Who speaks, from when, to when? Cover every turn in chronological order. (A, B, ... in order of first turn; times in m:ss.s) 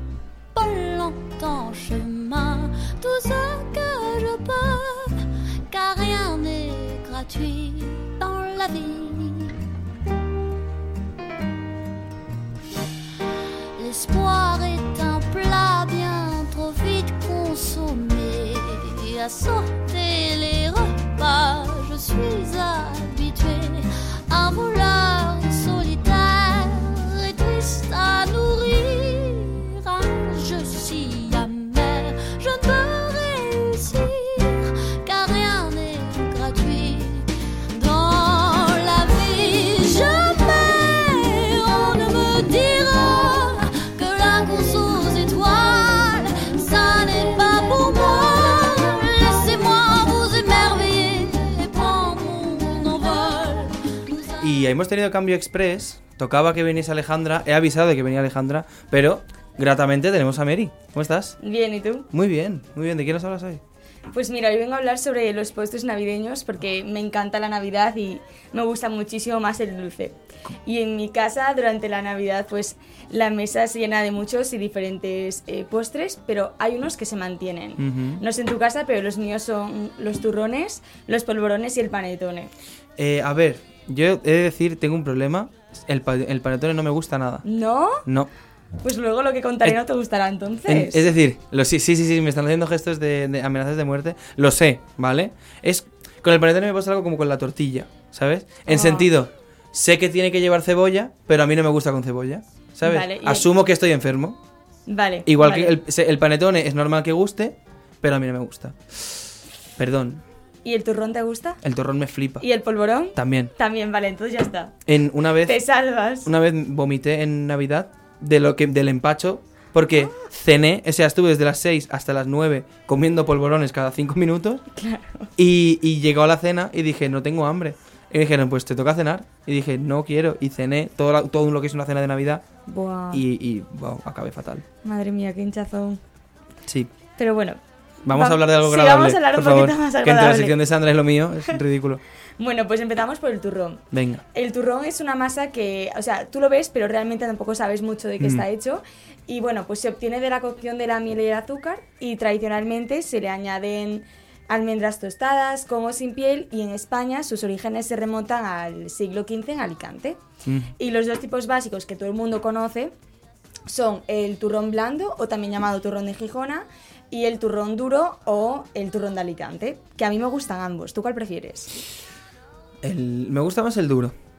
0:00.5-0:09.7 A
0:13.8-0:54.5 A
0:54.4-1:01.4 B
1:01.4-1:02.1 C
1:02.1-1:03.6 B
1:04.1-1:22.5 C
1:17.8-1:18.2 B
1:23.0-1:27.4 B
1:27.4-1:28.0 C
1:28.8-1:31.1 C
1:30.7-1:44.4 B
1:38.7-1:39.1 C
1:42.8-1:43.5 C
1:44.8-1:45.8 C
1:45.2-1:48.8 B
1:49.8-1:50.2 B
1:50.6-1:51.6 C
1:51.6-1:52.4 B
1:52.4-1:54.8 C
1:53.1-1:53.5 B
1:54.9-1:55.6 B
1:55.4-1:56.3 C
1:56.2-2:04.6 B
2:04.7-2:05.3 C
2:05.4-2:12.4 B
2:12.7-2:13.2 C
2:13.1-2:14.6 B
2:14.8-2:16.0 C
2:17.2-2:20.6 C
2:18.0-2:22.0 B
2:22.4-2:40.2 C
2:23.9-2:24.2 B
2:28.2-2:28.4 B
2:40.4-2:40.7 B
2:40.8-2:42.9 C
2:43.6-2:51.8 C
2:52.8-2:54.1 B